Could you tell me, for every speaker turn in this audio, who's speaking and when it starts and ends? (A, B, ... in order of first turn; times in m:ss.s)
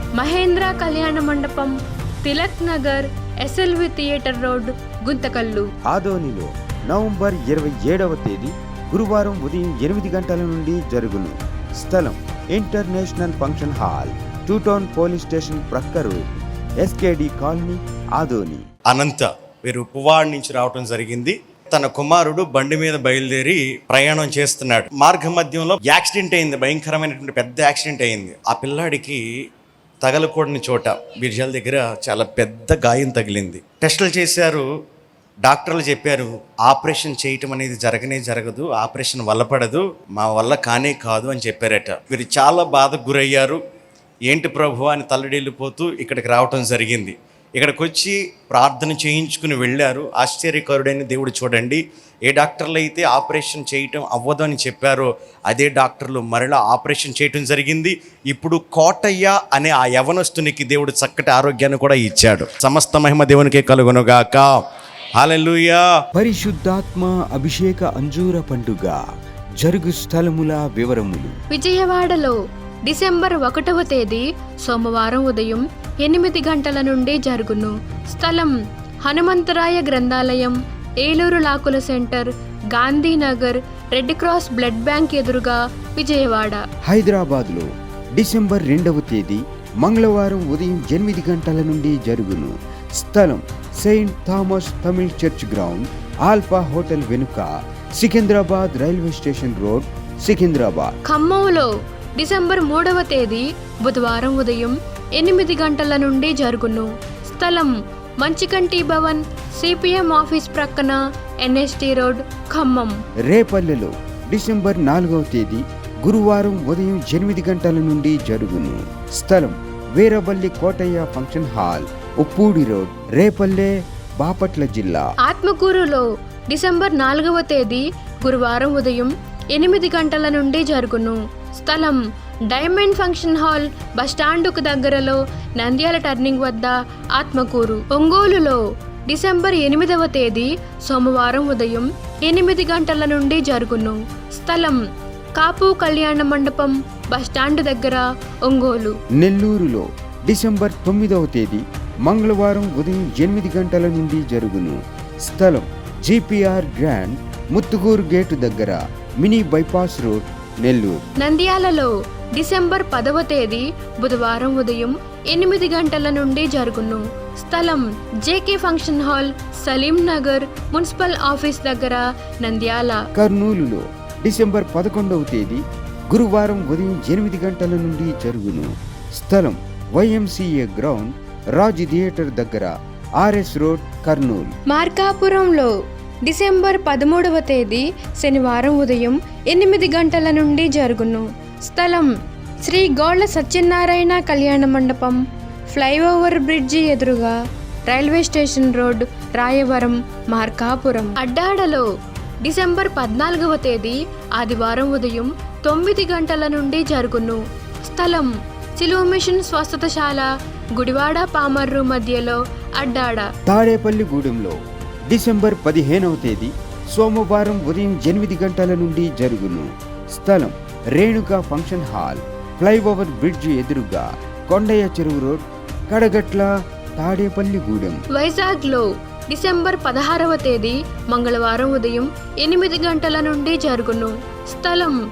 0:00.2-0:05.7 A
0:05.9-0:16.2 B
0:16.8-0:18.6 B
0:18.9-0:29.2 C
0:30.0-0:34.6 C
0:35.4-0:43.6 C
0:44.3-1:04.5 C
1:05.2-1:05.8 C
1:06.1-1:09.0 B
1:09.6-1:11.3 B
1:11.5-1:12.3 A
1:12.8-1:18.5 A
1:19.0-1:26.6 A
1:26.9-1:37.5 B
1:38.0-1:40.9 B
1:41.0-1:53.0 A
1:53.3-2:05.0 B
2:05.2-2:24.8 A
2:25.4-2:29.0 A
2:29.2-2:41.0 B
2:41.2-2:53.0 A
2:53.2-2:55.6 B
2:56.1-3:04.5 B
3:04.7-3:05.7 A
3:06.2-3:12.1 A
3:12.6-3:17.4 A
3:17.9-3:21.8 A
3:22.4-3:33.3 A
3:33.5-3:34.5 B
3:35.1-3:48.0 B
3:48.1-3:55.0 A